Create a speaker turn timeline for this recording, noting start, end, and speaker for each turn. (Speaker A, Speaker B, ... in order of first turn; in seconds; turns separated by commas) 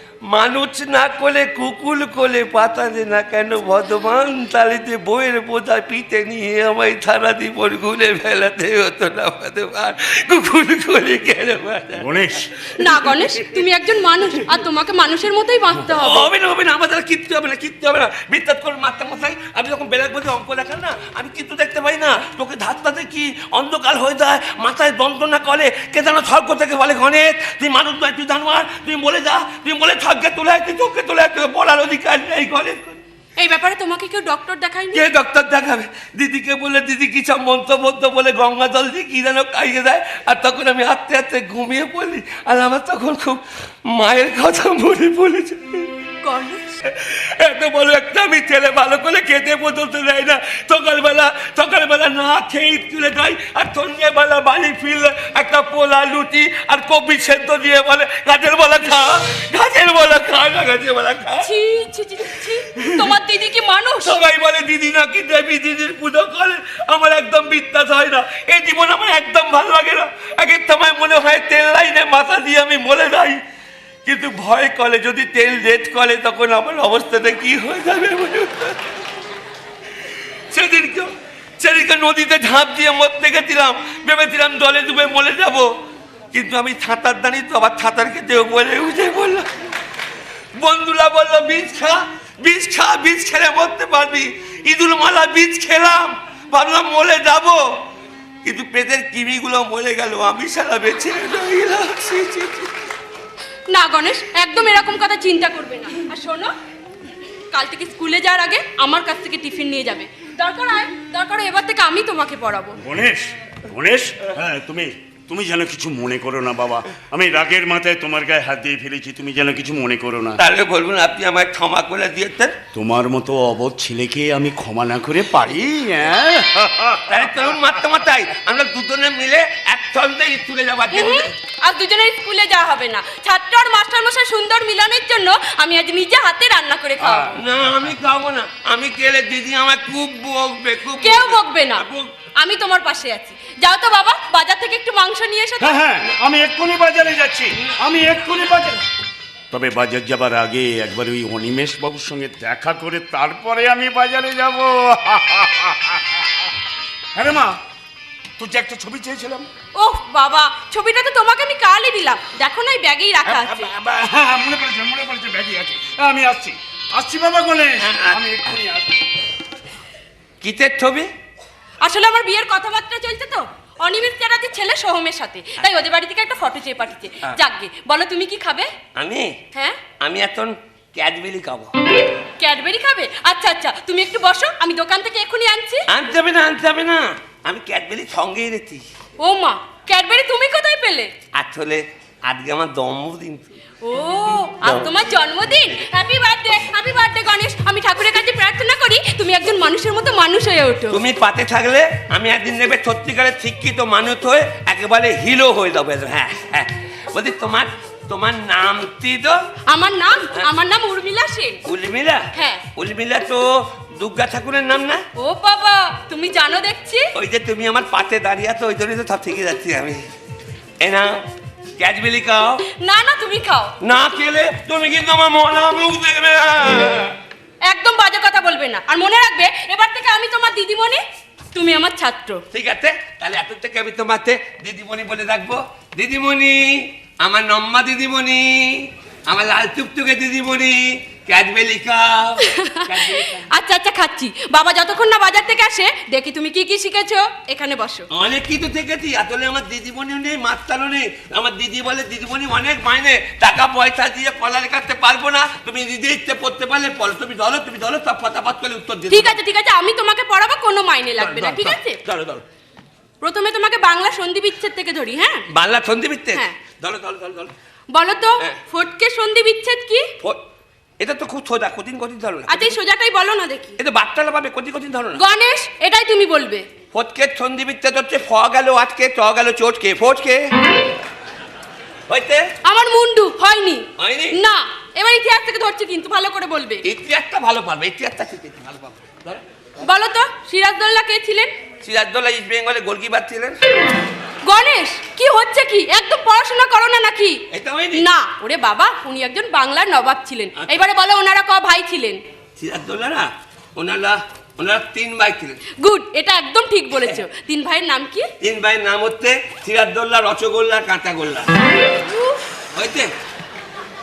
Speaker A: 0.3-12.6, Speaker B: 12.0-12.5, Speaker C: 12.8-16.3, Speaker A: 16.0-33.0, Speaker C: 33.4-35.0, Speaker A: 34.9-45.9, Speaker C: 46.2-46.7, Speaker A: 46.8-61.5, Speaker C: 61.4-64.2, Speaker A: 64.0-73.4, Speaker A: 74.0-78.8, Speaker A: 80.5-85.7, Speaker A: 86.3-89.5, Speaker A: 90.6-97.6, Speaker A: 98.4-102.7, Speaker C: 103.7-106.5, Speaker C: 107.5-112.7, Speaker B: 112.8-120.4, Speaker A: 120.4-122.5, Speaker B: 122.7-127.0, Speaker A: 127.1-131.3, Speaker C: 130.9-137.4, Speaker B: 137.1-137.3, Speaker A: 137.4-142.1, Speaker C: 141.0-141.8, Speaker C: 142.4-145.8, Speaker B: 145.6-148.8, Speaker B: 149.5-156.2, Speaker B: 157.2-157.6, Speaker B: 158.4-159.5, Speaker C: 159.8-163.7, Speaker B: 163.2-169.0, Speaker A: 167.8-168.5, Speaker A: 170.4-171.1, Speaker C: 171.8-178.7, Speaker A: 179.0-179.3, Speaker C: 179.5-179.8, Speaker A: 180.0-181.7, Speaker C: 182.4-185.8, Speaker A: 185.9-188.8, Speaker C: 189.2-191.1, Speaker A: 191.3-193.5, Speaker C: 193.8-201.0, Speaker A: 194.6-194.9, Speaker A: 200.9-209.4, Speaker C: 209.7-211.6, Speaker A: 211.7-215.0, Speaker C: 212.3-212.7, Speaker C: 215.2-217.1, Speaker A: 217.2-220.1, Speaker A: 220.8-221.2, Speaker A: 221.8-222.6, Speaker C: 222.7-223.7, Speaker A: 223.8-227.2, Speaker C: 227.7-231.0, Speaker C: 231.5-232.4, Speaker A: 232.5-243.5, Speaker C: 242.4-248.1, Speaker A: 248.1-259.4, Speaker C: 259.1-262.0, Speaker A: 261.2-262.4, Speaker C: 263.2-265.4, Speaker A: 265.5-267.5, Speaker C: 267.9-270.1, Speaker A: 271.0-272.7, Speaker C: 272.5-273.8, Speaker A: 273.8-275.2, Speaker C: 275.2-276.7, Speaker A: 276.9-280.5, Speaker A: 282.1-282.4, Speaker C: 282.7-286.8, Speaker A: 284.0-284.4, Speaker A: 286.9-289.4, Speaker C: 289.8-291.5, Speaker A: 291.8-293.6, Speaker C: 294.4-297.4, Speaker A: 297.5-298.0, Speaker C: 297.9-302.2, Speaker A: 300.6-300.8, Speaker A: 302.6-305.6, Speaker C: 305.8-308.3, Speaker A: 308.4-311.5, Speaker C: 312.1-312.4, Speaker A: 312.7-313.1